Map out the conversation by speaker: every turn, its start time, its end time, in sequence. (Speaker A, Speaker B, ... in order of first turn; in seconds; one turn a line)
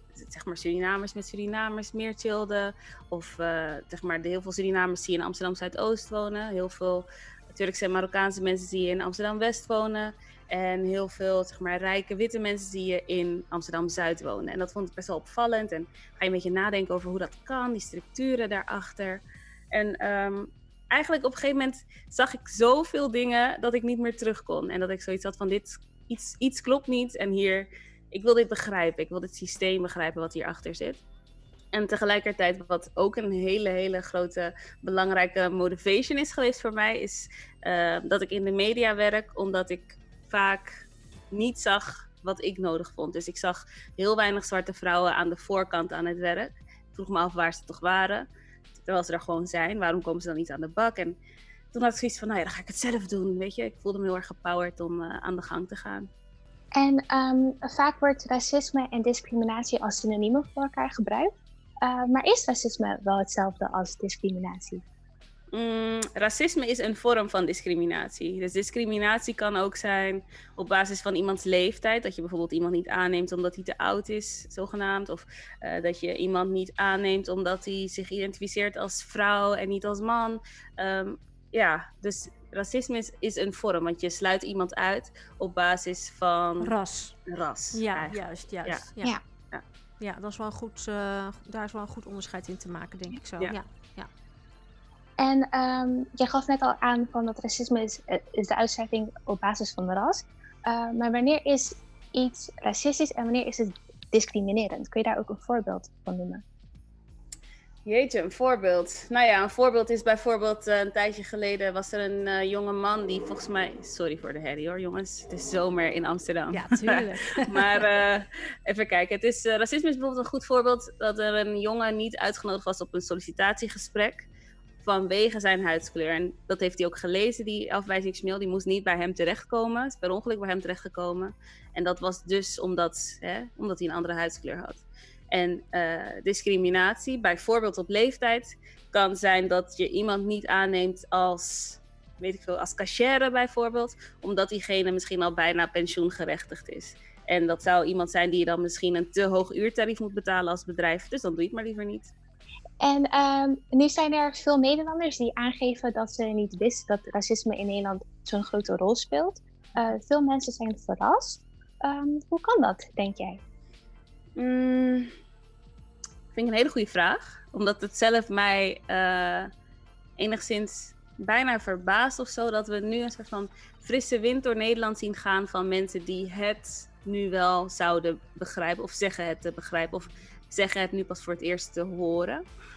Speaker A: 0.1-19.2
Speaker A: 19.7-31.0
Speaker A: 31.7-40.7
Speaker A: 41.3-48.2
Speaker A: 48.8-51.1
Speaker A: 51.7-56.1
Speaker B: 56.7-61.3
Speaker B: 61.8-64.8
Speaker A: 65.5-86.7
Speaker C: 86.6-87.1
Speaker A: 87.3-88.8
Speaker C: 87.7-89.2
Speaker C: 90.0-94.1
Speaker B: 95.2-106.4
Speaker A: 107.8-124.2
Speaker C: 116.5-117.9
Speaker A: 124.8-152.1
Speaker B: 152.8-163.4
Speaker A: 164.4-165.1
Speaker A: 166.3-169.5
Speaker A: 170.2-182.4